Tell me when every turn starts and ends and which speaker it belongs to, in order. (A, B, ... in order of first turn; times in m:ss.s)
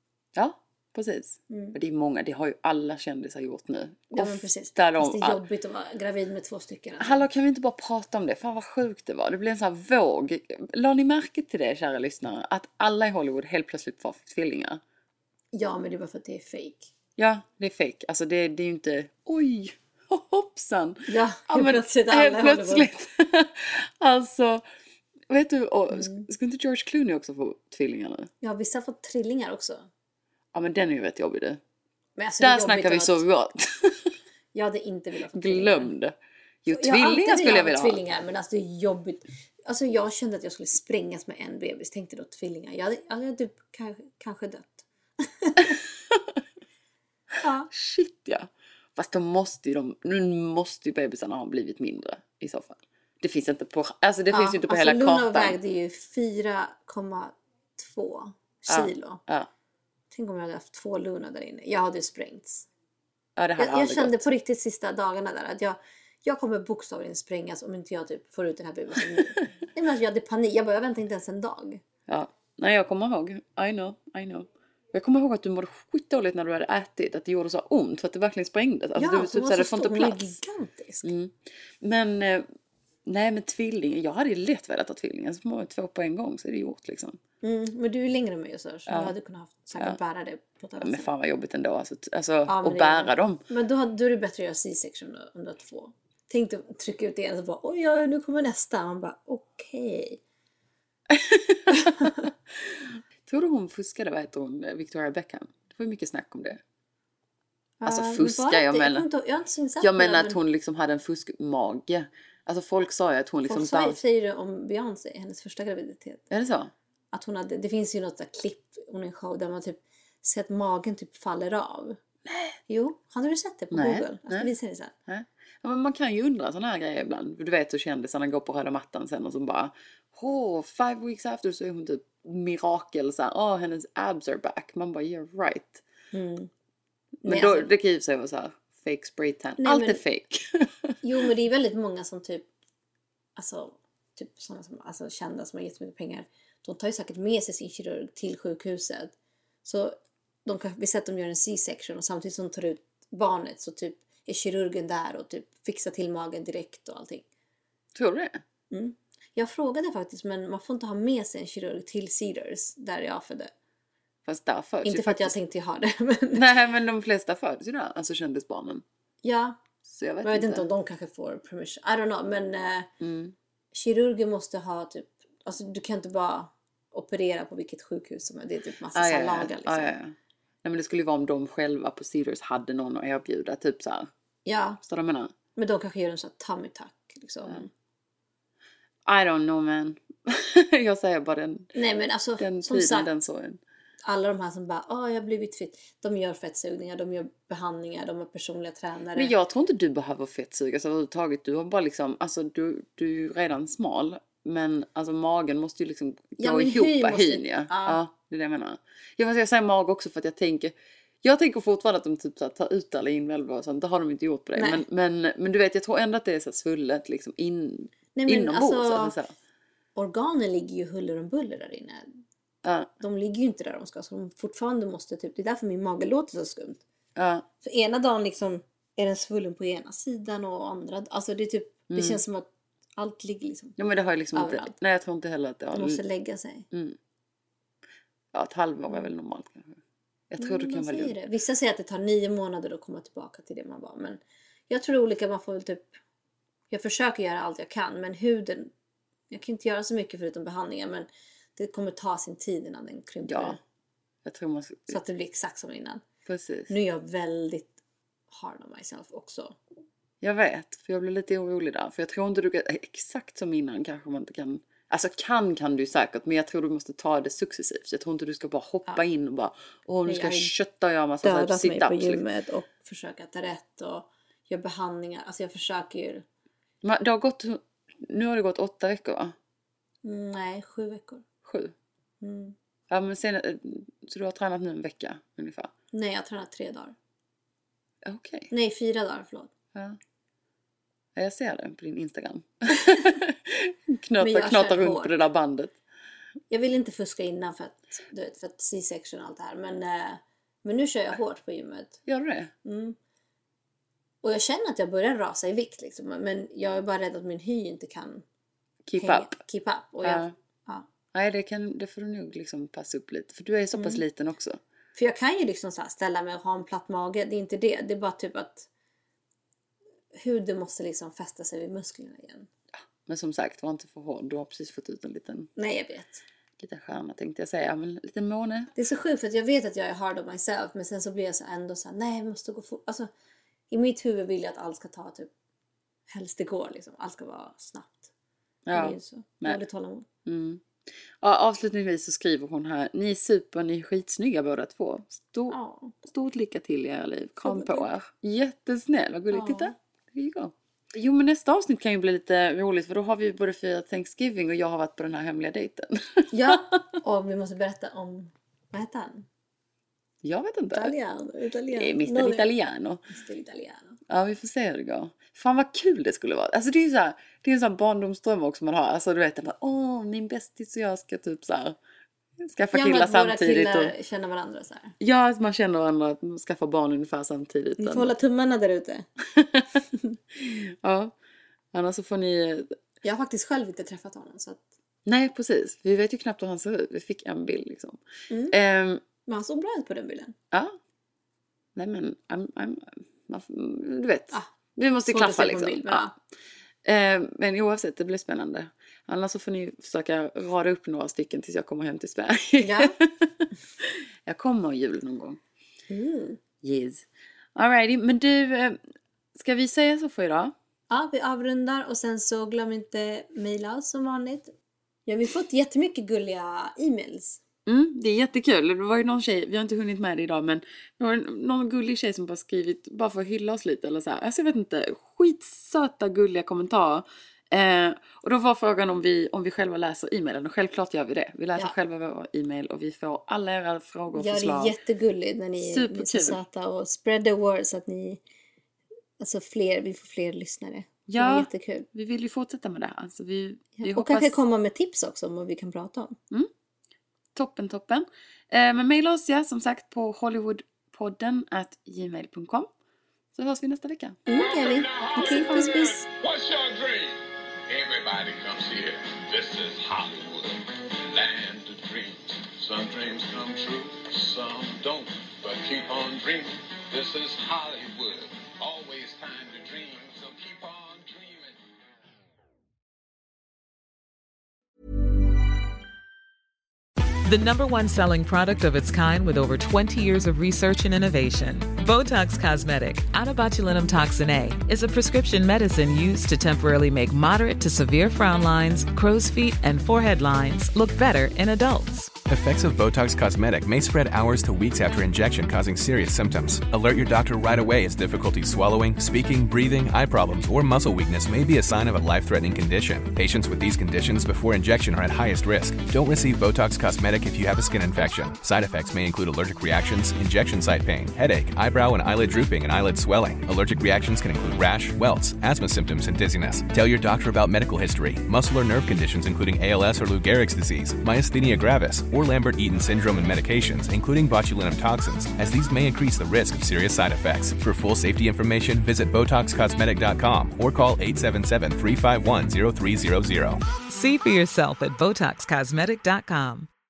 0:00.4-0:05.4 A
0:01.5-0:01.8 B
0:04.1-0:07.3 B
0:07.0-0:14.8 A
0:15.5-0:16.9 B
0:17.2-0:24.6 A
0:21.1-0:22.9 B
0:25.3-0:28.3 A
0:25.9-0:26.3 B
0:28.4-0:29.9 B
0:30.5-0:31.6 A
0:32.2-0:33.2 B
0:32.4-0:34.1 A
0:34.5-0:35.9 B
0:35.3-0:38.0 A
0:36.7-0:45.8 B
0:47.4-0:47.7 B
0:47.7-0:55.6 A
0:54.3-0:59.2 B
0:58.7-0:59.5 A
1:00.1-1:02.7 B
1:03.4-1:04.3 A
1:03.6-1:11.8 B
1:12.1-1:20.4 A
1:19.0-1:21.1 B
1:21.0-1:22.5 A
1:23.0-1:27.2 A
1:27.4-1:31.1 B
1:28.9-1:29.1 A
1:30.8-1:33.4 A
1:32.5-1:40.2 B
1:41.1-1:46.6 A
1:41.7-1:42.2 B
1:47.8-1:50.4 B
1:47.8-1:49.1 A
1:49.8-1:54.0 A
1:53.4-1:56.3 B
1:56.3-1:56.7 A
1:57.1-2:02.0 B
2:02.3-2:02.6 A
2:02.7-2:04.9 B
2:03.7-2:04.5 A
2:05.1-2:15.8 A
2:16.1-2:16.5 B
2:17.2-2:20.7 A
2:17.2-2:17.7 B
2:19.6-2:20.0 B
2:21.0-2:22.5 B
2:23.4-2:37.2 B
2:38.0-2:38.4 A
2:38.7-2:43.5 B
2:44.2-2:45.4 A
2:44.8-2:46.5 B
2:46.3-2:48.8 A
2:49.2-2:49.6 B
2:49.9-2:50.7 A
2:50.2-2:52.9 B
2:53.0-2:53.4 A
2:53.7-2:59.9 B
2:58.9-3:04.1 A
3:04.4-3:04.8 B
3:04.8-3:05.3 A
3:05.6-3:07.7 B
3:09.0-3:11.7 A
3:11.7-3:13.1 B
3:12.4-3:13.6 A
3:14.0-3:19.3 B
3:19.2-3:39.3 A
3:26.4-3:28.0 B
3:34.6-3:34.8 B
3:38.2-3:39.2 B
3:40.0-3:42.1 B
3:42.6-3:42.9 A
3:43.0-3:46.8 B
3:47.2-3:47.5 A
3:47.6-3:53.8 B
3:51.9-3:52.2 A
3:53.8-3:56.0 A
3:54.3-3:54.8 B
3:55.7-3:56.7 B
3:56.7-3:57.0 A
3:58.3-3:59.8 A
4:00.3-4:01.2 A
4:00.4-4:06.0 B
4:06.7-4:08.7 B
4:09.3-4:13.6 B
4:13.3-4:13.6 A
4:14.2-4:15.0 A
4:14.9-4:16.0 B
4:16.3-4:16.7 A
4:16.7-4:17.8 B
4:18.3-4:19.6 B
4:20.2-4:32.2 A
4:30.1-4:30.5 B
4:31.2-4:36.2 B
4:36.8-4:39.4 A
4:40.0-4:41.2 B
4:41.4-4:41.7 A
4:42.2-4:42.6 B
4:42.9-4:45.7 A
4:45.9-4:47.0 B
4:48.0-4:48.5 A
4:48.5-4:49.5 B
4:51.2-4:55.8 A
4:54.2-4:55.2 B
4:56.5-5:02.0 B
5:02.1-5:02.5 A
5:02.6-5:03.0 B
5:04.2-5:08.2 B
5:08.8-5:09.4 A
5:09.0-5:10.9 B
5:10.0-5:10.3 A
5:11.1-5:14.6 A
5:13.7-5:14.0 B
5:15.0-5:18.7 B
5:20.1-5:22.5 B
5:23.0-5:25.5 A
5:25.6-5:26.2 B
5:26.6-5:28.7 A
5:28.8-5:33.1 B
5:33.7-5:35.3 B
5:36.1-5:38.1 B
5:38.7-5:39.6 A
5:38.7-5:40.1 B
5:40.3-5:40.6 A
5:41.2-5:56.6 A
5:45.5-5:46.0 B
5:47.4-5:47.9 B
5:49.3-5:49.7 B
5:56.3-5:59.3 B
6:00.2-6:00.9 A
6:00.7-6:02.5 B
6:01.7-6:03.1 A
6:03.1-6:04.0 B
6:04.1-6:11.8 A
6:12.4-6:13.9 A
6:12.7-6:15.0 B
6:15.0-6:18.1 A
6:17.8-6:19.1 B
6:19.4-6:19.8 A
6:20.4-6:21.1 A
6:21.7-6:22.8 A
6:23.0-6:24.6 B
6:25.1-6:29.0 A
6:28.3-6:28.6 B
6:29.3-6:30.4 B
6:30.5-6:30.8 A
6:31.8-6:36.1 A
6:35.1-6:36.1 B
6:36.8-6:45.4 A
6:42.6-6:43.0 B
6:45.9-6:46.4 B
6:46.6-6:48.8 A
6:49.4-6:50.5 A
6:50.9-6:54.5 B
6:55.1-6:57.4 B
6:57.7-7:14.8 A
7:14.1-7:18.2 B
7:15.6-7:16.4 A
7:19.2-7:21.9 B
7:21.1-7:24.4 A
7:23.8-7:26.2 B
7:27.4-7:32.7 A
7:33.3-7:34.2 A
7:34.3-7:36.1 B
7:34.3-7:51.6 C
7:57.2-8:12.2 D
8:12.3-8:53.6 E
8:53.9-8:56.7 D